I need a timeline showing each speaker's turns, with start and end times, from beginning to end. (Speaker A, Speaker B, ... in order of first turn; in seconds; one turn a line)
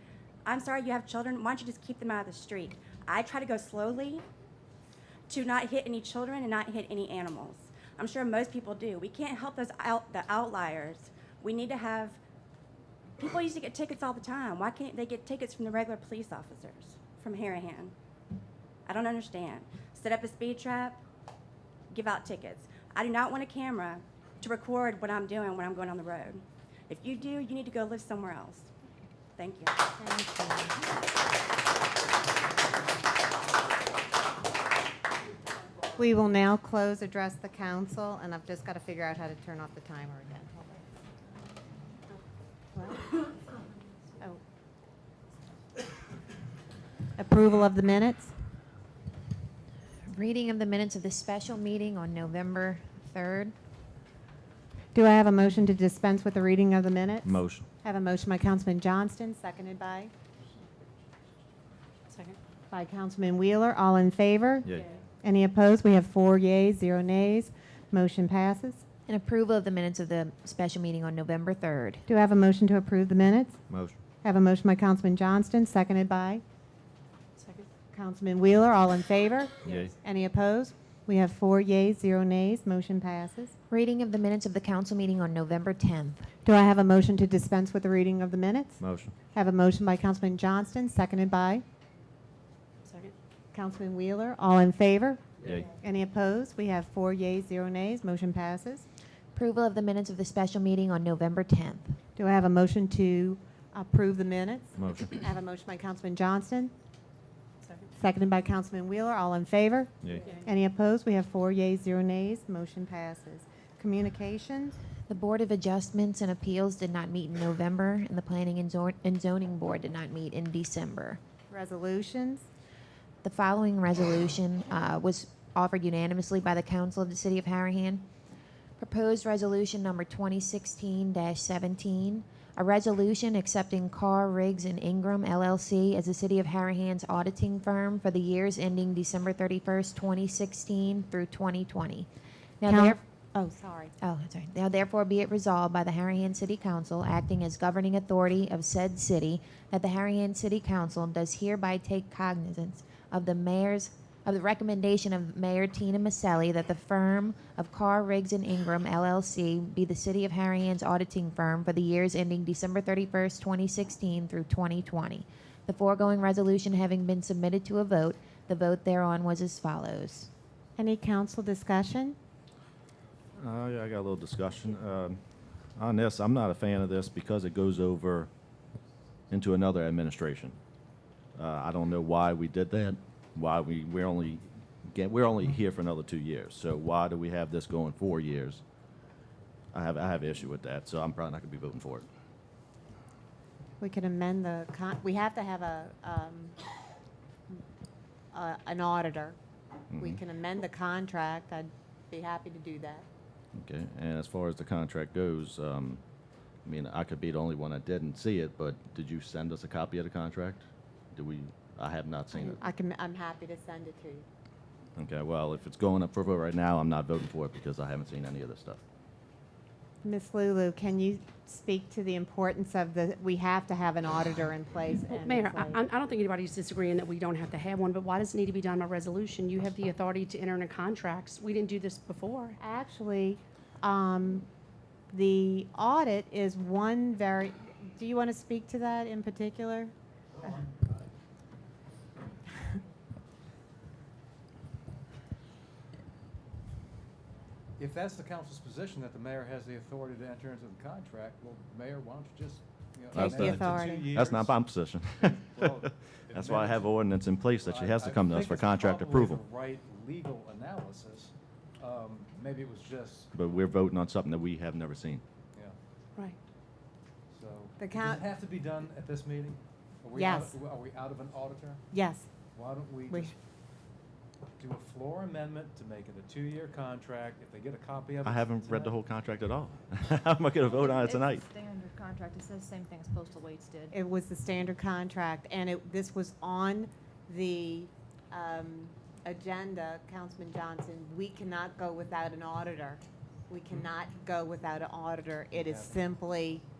Speaker A: 0.4-4.2
Speaker A: 5.3-12.2
Speaker A: 13.2-17.9
Speaker A: 18.9-21.0
Speaker A: 21.9-28.7
Speaker A: 29.4-29.7
Speaker B: 30.0-30.8
Speaker B: 36.0-40.9
Speaker B: 42.7-43.2
Speaker B: 47.2-48.3
Speaker C: 50.1-53.5
Speaker B: 54.9-60.1
Speaker D: 57.2-57.7
Speaker E: 62.1-62.4
Speaker B: 62.7-68.8
Speaker C: 69.1-72.0
Speaker B: 72.1-73.6
Speaker D: 73.7-74.0
Speaker B: 74.2-76.4
Speaker E: 77.4-77.7
Speaker B: 77.9-83.5
Speaker D: 79.6-79.9
Speaker C: 83.7-86.3
Speaker B: 86.4-91.6
Speaker D: 88.8-89.1
Speaker E: 92.8-93.1
Speaker B: 93.5-98.8
Speaker D: 95.4-95.7
Speaker C: 99.3-102.0
Speaker B: 102.2-106.7
Speaker D: 104.8-105.2
Speaker B: 108.0-114.8
Speaker C: 115.1-121.2
Speaker B: 121.5-122.4
Speaker C: 123.2-128.1
Speaker C: 128.8-142.1
Speaker C: 142.6-143.0
Speaker B: 142.7-143.9
Speaker C: 144.0-170.3
Speaker B: 170.8-172.2
Speaker D: 173.4-175.2
Speaker D: 175.8-178.3
Speaker D: 179.3-180.6
Speaker D: 181.3-188.6
Speaker D: 189.7-192.1
Speaker B: 193.8-196.5
Speaker B: 198.3-199.3
Speaker D: 199.9-200.2
Speaker B: 199.9-203.1
Speaker D: 203.5-206.0
Speaker D: 206.6-212.6
Speaker B: 212.3-214.2
Speaker D: 215.0-218.8
Speaker B: 220.0-225.8
Speaker E: 225.1-232.6
Speaker B: 232.6-234.4
Speaker B: 235.1-239.9
Speaker F: 247.8-254.7
Speaker D: 253.1-259.4
Speaker B: 253.2-254.1
Speaker F: 255.2-263.3
Speaker D: 263.3-265.2
Speaker F: 267.3-271.8
Speaker B: 267.8-268.2
Speaker B: 270.1-270.5
Speaker B: 271.9-272.3
Speaker F: 272.5-273.4
Speaker F: 274.6-278.9
Speaker D: 278.2-281.4
Speaker G: 280.7-283.9
Speaker B: 283.9-296.6
Speaker F: 295.6-295.9